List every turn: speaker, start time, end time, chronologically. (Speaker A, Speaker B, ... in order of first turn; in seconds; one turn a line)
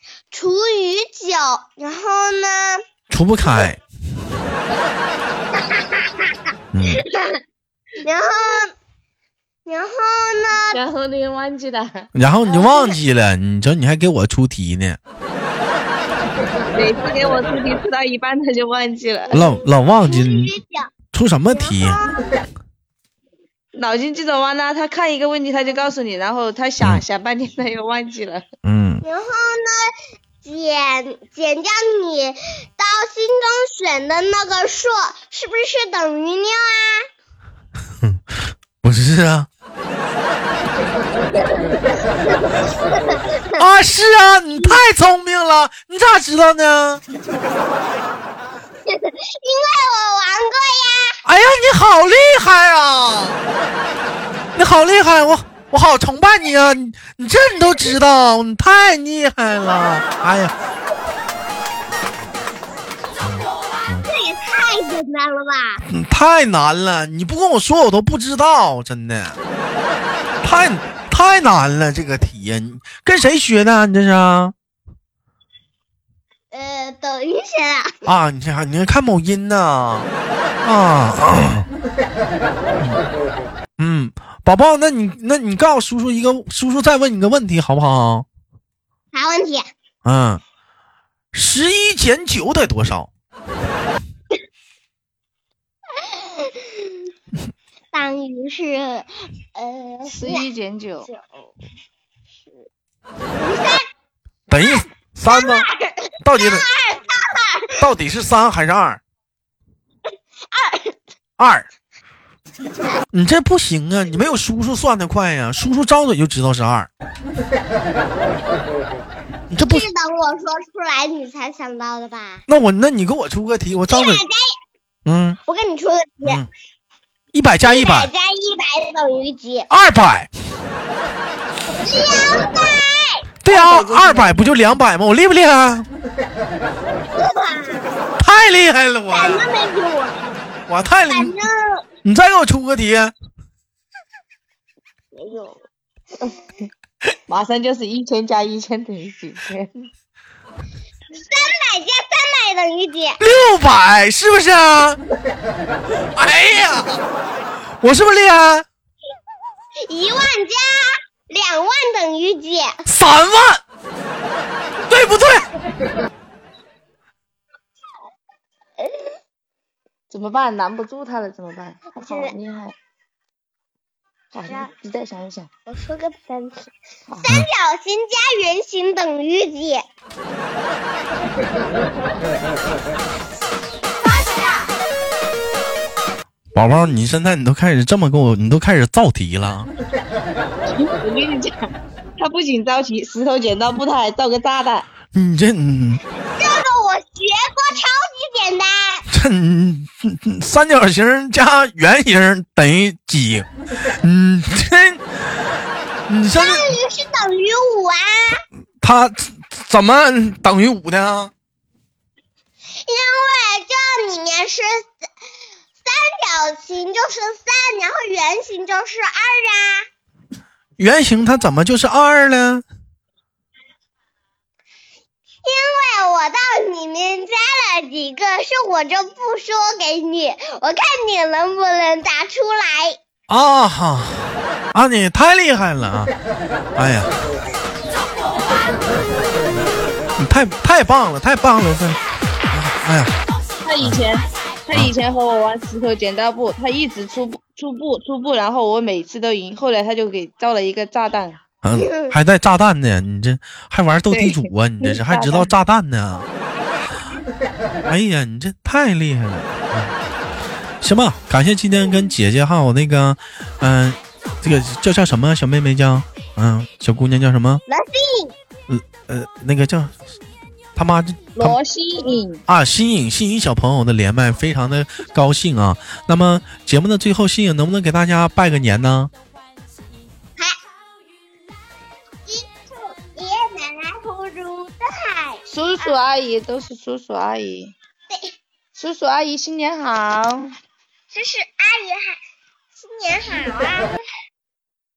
Speaker A: 0.3-2.8
Speaker B: 3.1-3.8
Speaker A: 5.6-6.3
Speaker B: 6.7-7.0
Speaker A: 7.0-7.3
Speaker A: 8.0-8.7
Speaker A: 9.7-10.8
Speaker C: 10.7-12.1
Speaker B: 12.1-15.0
Speaker A: 12.4-13.0
Speaker C: 16.7-19.4
Speaker B: 19.3-20.5
Speaker A: 20.1-20.9
Speaker B: 21.1-22.0
Speaker A: 21.5-22.4
Speaker C: 23.7-28.4
Speaker B: 28.6-29.0
Speaker A: 29.0-37.1
Speaker B: 38.8-39.5
Speaker A: 42.5-43.6
Speaker B: 43.6-47.0
Speaker A: 48.9-51.2
Speaker B: 51.2-53.4
Speaker B: 54.5-60.5
Speaker B: 63.2-64.1
Speaker A: 64.0-65.8
Speaker B: 65.8-69.4
Speaker B: 70.4-74.5
Speaker A: 76.5-77.9
Speaker B: 78.0-80.1
Speaker B: 80.6-81.7
Speaker B: 83.8-88.3
Speaker A: 89.1-89.7
Speaker B: 90.0-90.4
Speaker B: 91.3-93.1
Speaker A: 96.0-96.9
Speaker A: 97.9-100.4
Speaker C: 100.1-101.1
Speaker A: 101.1-101.5
Speaker A: 103.4-103.8
Speaker B: 104.5-105.7
Speaker A: 104.5-107.8
Speaker B: 106.2-106.6
Speaker B: 107.8-109.0
Speaker A: 110.5-111.0
Speaker B: 111.4-111.7
Speaker B: 113.1-116.9
Speaker B: 119.5-119.8
Speaker A: 119.6-122.4
Speaker B: 122.5-124.2
Speaker A: 123.9-124.5
Speaker B: 125.0-125.4
Speaker A: 125.5-126.4
Speaker B: 127.3-128.1
Speaker A: 127.6-129.7
Speaker B: 129.7-130.3
Speaker A: 131.8-133.2
Speaker B: 133.4-135.9
Speaker C: 133.5-134.8
Speaker A: 137.1-137.9
Speaker B: 138.2-139.5
Speaker A: 139.1-140.3
Speaker B: 140.7-141.3
Speaker A: 141.1-141.8
Speaker B: 142.0-143.1
Speaker A: 145.1-145.6
Speaker C: 147.3-149.9
Speaker A: 151.1-153.2
Speaker B: 153.2-155.0
Speaker B: 156.1-157.0
Speaker B: 157.8-158.7
Speaker A: 159.9-162.8
Speaker B: 162.9-163.6
Speaker B: 164.8-165.4
Speaker A: 168.8-169.1
Speaker C: 170.1-172.8
Speaker A: 171.9-172.3
Speaker C: 174.3-175.5
Speaker A: 175.7-176.7
Speaker C: 177.1-177.3
Speaker A: 177.2-179.8
Speaker B: 186.5-189.7
Speaker C: 190.8-191.6
Speaker C: 192.2-194.9
Speaker B: 195.1-196.0
Speaker A: 196.3-199.1
Speaker B: 199.1-206.8
Speaker A: 206.3-208.4
Speaker B: 208.8-211.3
Speaker A: 212.8-214.9
Speaker A: 215.8-219.9
Speaker B: 220.8-222.6
Speaker A: 225.4-233.0
Speaker B: 233.3-236.1
Speaker B: 236.8-237.1
Speaker B: 240.2-242.0
Speaker B: 242.5-243.1
Speaker C: 243.6-251.4
Speaker B: 251.6-256.3
Speaker A: 251.7-252.1
Speaker C: 254.1-255.5
Speaker A: 256.2-257.2
Speaker B: 257.9-259.9
Speaker B: 260.8-267.6
Speaker A: 267.7-268.3
Speaker B: 268.7-269.9
Speaker B: 270.8-271.6
Speaker C: 271.4-272.4
Speaker B: 272.5-279.1
Speaker A: 282.3-285.9
Speaker C: 285.5-287.7
Speaker C: 288.8-290.5
Speaker A: 291.1-292.2
Speaker A: 292.8-294.0